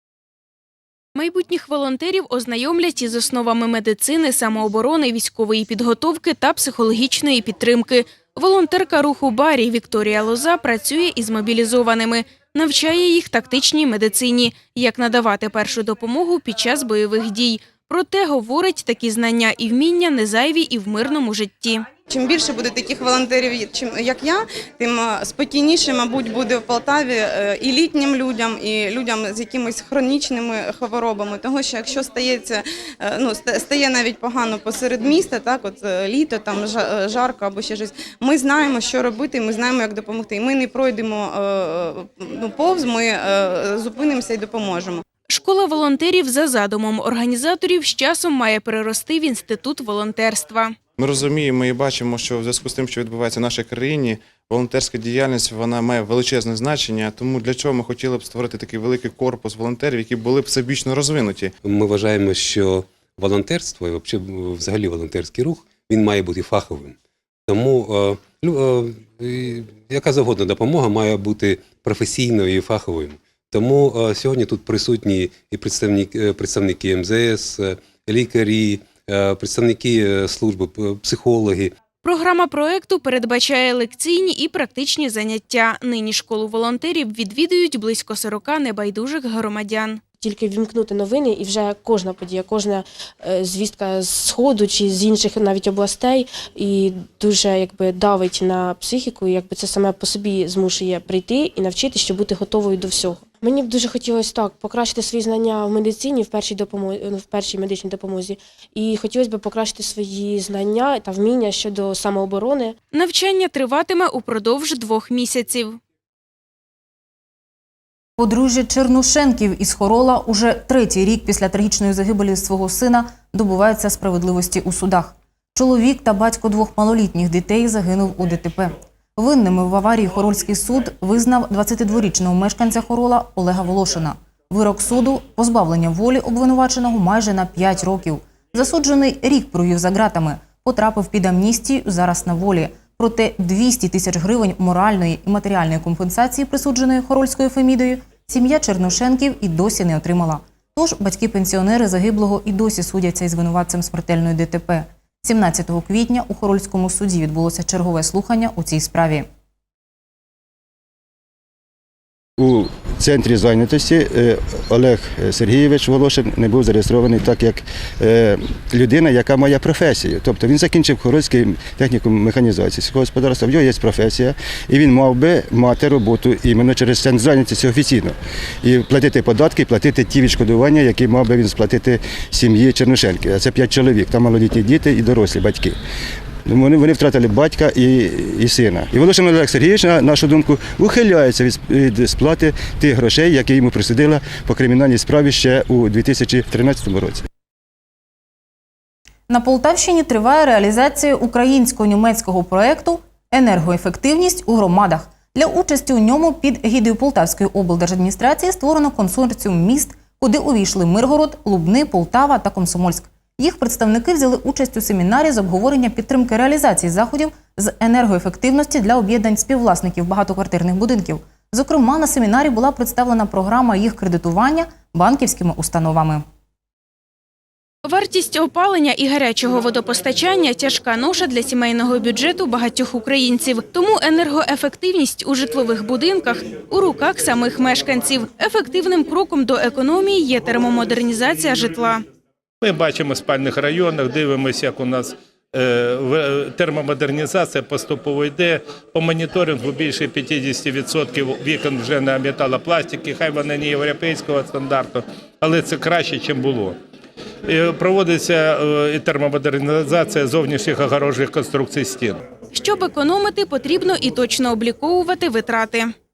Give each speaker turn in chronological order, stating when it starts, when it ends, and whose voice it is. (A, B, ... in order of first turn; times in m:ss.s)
0:01.2-0:21.9 A
0:22.1-0:45.0 B
0:45.3-0:50.8 A
0:51.0-1:01.5 C
1:01.6-1:21.7 D
1:22.0-1:30.0 A
1:30.2-1:52.8 E
1:52.9-1:55.8 A
1:58.2-2:39.3 F
2:42.4-3:05.8 G
3:06.5-3:17.2 G
3:19.3-3:46.2 F
3:47.9-4:02.0 A
4:02.6-4:16.8 H
4:17.5-4:22.2 H
4:22.5-4:25.9 A